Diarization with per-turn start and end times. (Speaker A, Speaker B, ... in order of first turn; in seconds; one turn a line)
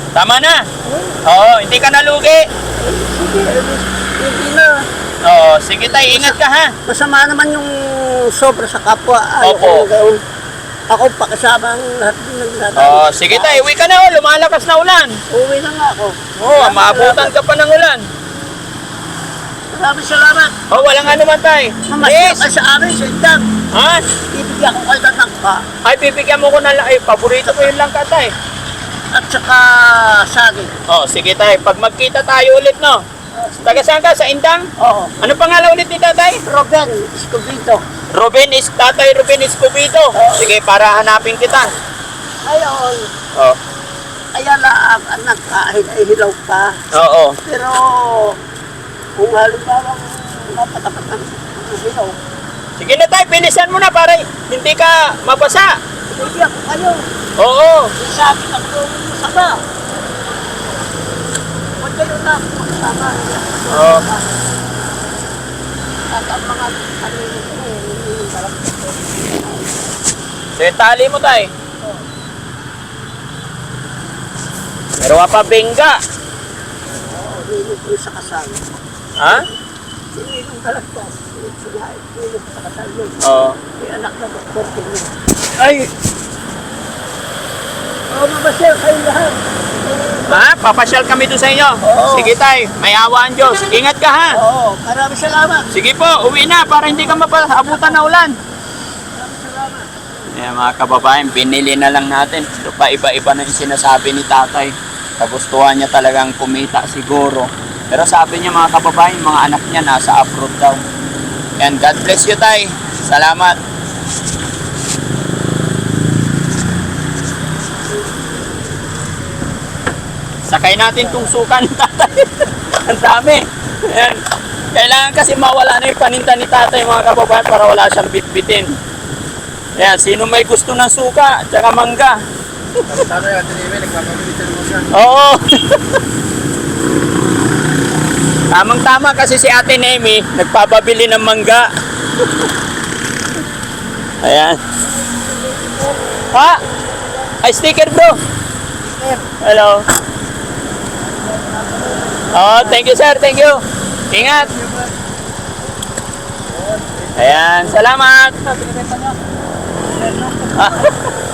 Speaker A: 0.1-0.7
Speaker B: 0.8-1.2
Speaker A: 1.2-2.5
Speaker B: 2.8-4.7
Speaker A: 5.2-6.7
Speaker B: 6.1-10.2
Speaker A: 9.4-9.9
Speaker B: 10.9-13.7
Speaker A: 12.8-15.2
Speaker B: 15.3-17.4
Speaker A: 16.4-18.1
Speaker B: 19.7-21.2
Speaker A: 20.7-22.5
Speaker B: 21.9-23.4
Speaker A: 23.7-24.1
Speaker B: 24.3-25.6
Speaker A: 25.8-28.3
Speaker B: 27.5-27.7
Speaker B: 29.1-30.7
Speaker A: 30.9-33.0
Speaker B: 33.4-33.8
Speaker A: 33.6-34.7
Speaker B: 34.8-35.2
Speaker A: 35.2-36.4
Speaker B: 36.5-37.8
Speaker A: 38.1-41.7
Speaker B: 40.1-40.5
Speaker B: 42.4-43.1
Speaker B: 44.4-46.7
Speaker A: 46.9-47.4
Speaker B: 47.5-48.4
Speaker B: 49.2-52.1
Speaker A: 52.8-55.8
Speaker B: 56.1-57.0
Speaker A: 57.4-57.9
Speaker B: 58.0-59.6
Speaker B: 61.8-64.4
Speaker A: 63.7-64.0
Speaker B: 66.1-69.7
Speaker A: 70.6-71.5
Speaker A: 75.0-76.0
Speaker B: 77.1-78.7
Speaker A: 79.2-79.5
Speaker B: 80.1-83.2
Speaker A: 83.2-83.6
Speaker B: 83.8-85.1
Speaker A: 85.6-85.9
Speaker B: 88.1-89.4
Speaker B: 89.9-90.2
Speaker A: 90.3-94.4
Speaker B: 91.8-92.3
Speaker B: 94.3-95.8
Speaker A: 95.7-98.4
Speaker B: 96.9-98.0
Speaker B: 99.2-100.1
Speaker A: 100.3-110.8
Speaker A: 111.6-113.6
Speaker A: 120.5-124.2
Speaker A: 124.7-128.8
Speaker A: 129.8-132.2
Speaker C: 132.9-134.9
Speaker A: 134.9-136.0
Speaker A: 138.5-141.7
Speaker A: 144.2-144.6
Speaker A: 146.3-146.6
Speaker A: 147.4-148.2
Speaker A: 149.4-149.8
Speaker A: 152.3-154.6
Speaker C: 156.6-157.2
Speaker A: 157.2-158.5
Speaker C: 158.5-159.1
Speaker C: 160.0-160.5
Speaker A: 160.5-160.9